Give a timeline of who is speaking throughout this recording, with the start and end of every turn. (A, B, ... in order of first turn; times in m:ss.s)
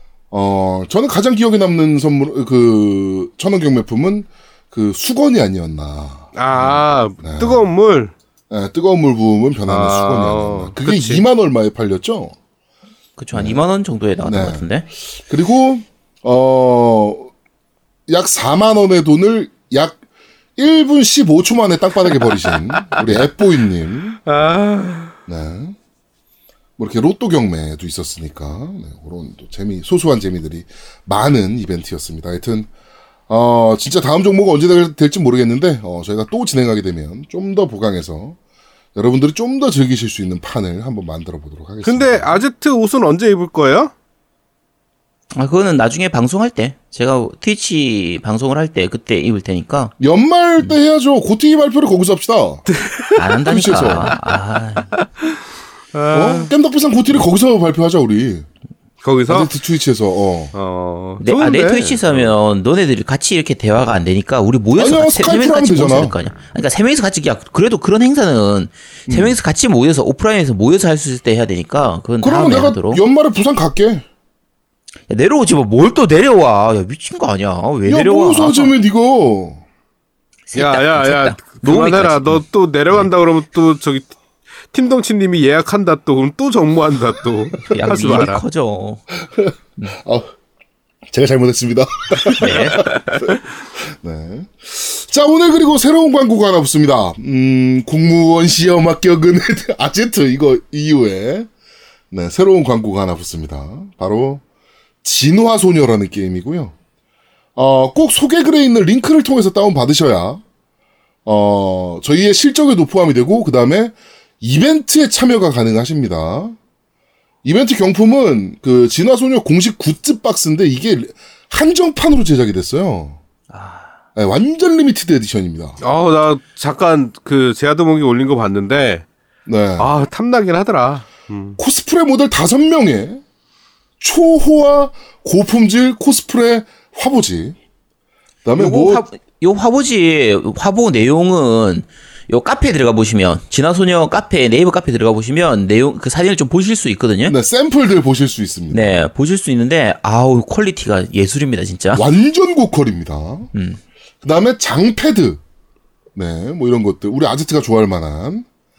0:00.3-0:07.7 A
0:06.4-0:08.1 B
0:08.5-0:12.3 A
0:09.6-0:11.2 B
0:13.2-0:14.8 C
0:13.3-0:13.6 A
0:14.2-0:17.3 A
0:18.1-0:20.0 A
0:20.6-0:24.2 A
0:24.2-0:25.1 B
0:25.3-0:25.8 A
0:26.8-0:32.7 A
0:33.3-0:38.4 A
0:38.9-0:42.4 A
0:41.8-0:43.9 B
0:45.3-0:49.9 C
0:50.0-0:52.6 A
0:52.8-0:53.1 B
0:53.2-0:54.9 C
0:53.4-0:54.1 A
0:55.9-0:56.5 B
0:56.1-0:58.5 A
0:59.0-0:59.5 B
0:59.3-1:00.5 A
1:00.5-1:02.3 B
1:01.2-1:13.0 C
1:04.8-1:06.2 A
1:09.1-1:09.4 A
1:12.2-1:14.0 A
1:15.1-1:18.7 C
1:17.8-1:19.6 A
1:20.5-1:22.4 C
1:20.6-1:24.1 B
1:24.7-1:28.4 B
1:27.6-1:29.0 C
1:27.8-1:28.3 A
1:29.3-1:30.3 A
1:31.1-1:41.5 A
1:32.4-1:32.8 C
1:42.1-1:44.4 A
1:45.0-1:46.7 A
1:47.6-1:50.4 A
1:51.2-1:56.6 A
1:57.4-2:03.2 A
2:03.5-2:04.0 C
2:04.1-2:05.8 A
2:05.8-2:09.0 B
2:09.5-2:09.9 A
2:09.8-2:11.6 B
2:11.6-2:13.2 A
2:14.0-2:17.6 A
2:18.4-2:19.0 A
2:18.6-2:27.4 C
2:27.2-2:29.0 A
2:28.7-2:32.0 C
2:31.9-2:33.5 A
2:33.5-2:33.8 C
2:34.2-2:35.4 A
2:36.1-2:38.4 A